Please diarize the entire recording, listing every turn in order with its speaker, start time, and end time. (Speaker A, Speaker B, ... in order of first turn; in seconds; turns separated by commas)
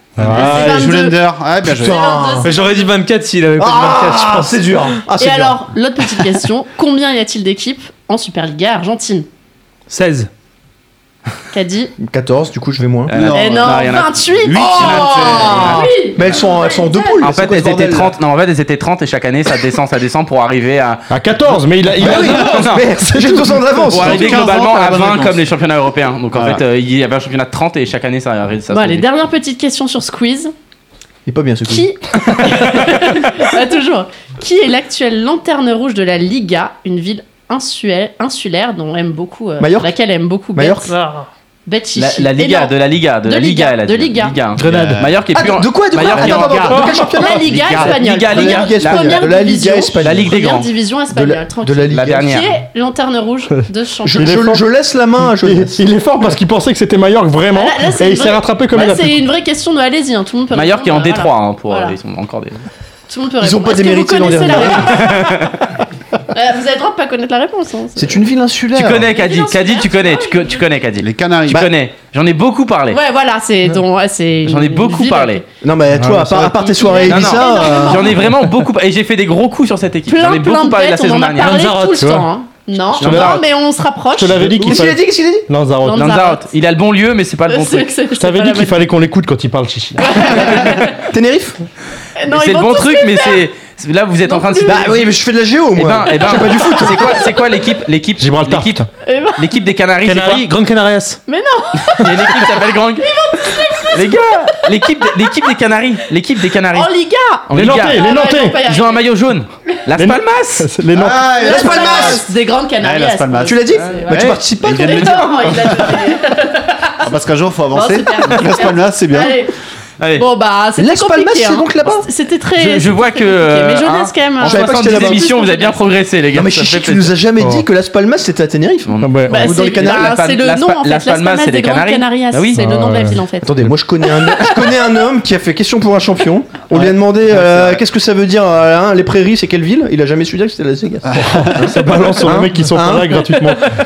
Speaker A: 0.2-1.0, Speaker B: 0.2-2.2, Speaker C: 0.2-1.2, Speaker D: 1.6-2.5, Speaker C: 1.8-2.9, Speaker E: 2.4-4.7, Speaker D: 3.6-5.6, Speaker C: 5.2-9.3, Speaker E: 9.9-10.3, Speaker C: 11.5-11.9, Speaker D: 12.0-13.1, Speaker F: 13.1-15.9, Speaker B: 13.1-13.9, Speaker C: 13.3-17.2, Speaker B: 14.4-15.8, Speaker D: 15.0-18.1, Speaker F: 17.2-21.1, Speaker A: 21.1-23.5, Speaker D: 22.0-24.4, Speaker B: 22.0-22.7, Speaker F: 22.3-22.9, Speaker B: 23.9-25.4, Speaker F: 23.9-29.1, Speaker B: 26.3-26.6, Speaker C: 28.7-30.5, Speaker D: 31.3-31.9, Speaker C: 31.7-40.9, Speaker D: 39.6-39.9, Speaker D: 40.5-40.9, Speaker E: 40.9-41.3, Speaker C: 41.6-44.5, Speaker F: 42.0-49.5, Speaker E: 44.6-45.0, Speaker B: 44.6-45.1, Speaker D: 45.3-50.4, Speaker E: 46.0-46.9, Speaker C: 46.8-54.4, Speaker F: 50.0-50.7, Speaker D: 51.1-52.1, Speaker F: 51.9-52.5, Speaker D: 54.0-55.8, Speaker A: 54.1-54.6, Speaker A: 55.2-59.2, Speaker C: 57.5-62.0, Speaker F: 60.5-62.6, Speaker C: 63.1-65.5, Speaker D: 63.4-65.1, Speaker F: 64.8-65.5, Speaker C: 66.3-68.2, Speaker D: 68.0-69.1, Speaker F: 68.7-73.0, Speaker C: 69.1-70.6, Speaker B: 71.0-71.7, Speaker C: 72.9-75.4, Speaker F: 74.4-75.4, Speaker D: 75.6-78.2, Speaker A: 76.0-76.5, Speaker C: 76.7-78.2, Speaker F: 77.0-81.7, Speaker C: 80.1-84.7, Speaker E: 81.4-82.3, Speaker A: 82.0-82.3, Speaker A: 83.0-83.4, Speaker F: 83.0-83.4, Speaker A: 84.1-86.1, Speaker D: 84.6-85.5, Speaker C: 85.8-86.5, Speaker F: 85.9-88.0, Speaker C: 87.5-88.8, Speaker A: 88.2-90.0, Speaker C: 90.0-90.9, Speaker F: 90.4-90.9, Speaker D: 91.1-91.6, Speaker C: 92.2-93.5, Speaker F: 92.3-95.1, Speaker C: 94.2-95.0, Speaker D: 94.7-97.3, Speaker F: 95.8-98.8, Speaker C: 96.4-96.9, Speaker A: 98.2-98.9, Speaker C: 99.0-99.4, Speaker F: 99.4-100.5, Speaker E: 100.0-101.2, Speaker C: 101.3-105.5, Speaker F: 101.9-103.1, Speaker F: 103.9-106.9, Speaker C: 106.7-109.1, Speaker F: 107.5-108.0, Speaker A: 107.5-108.6, Speaker F: 108.6-110.7, Speaker A: 110.0-111.3, Speaker B: 110.9-112.3, Speaker C: 111.3-117.1, Speaker D: 111.4-112.3, Speaker B: 112.8-116.1, Speaker D: 113.4-115.0, Speaker B: 117.0-119.4, Speaker C: 117.7-119.5, Speaker F: 120.0-120.3, Speaker C: 120.2-126.0, Speaker D: 120.8-122.1, Speaker F: 122.6-127.1, Speaker D: 124.4-125.3, Speaker D: 126.3-130.2, Speaker F: 128.9-132.7, Speaker A: 129.0-129.4, Speaker C: 129.2-134.7, Speaker A: 132.5-133.2, Speaker D: 133.4-143.3, Speaker B: 141.1-142.0, Speaker A: 141.2-143.8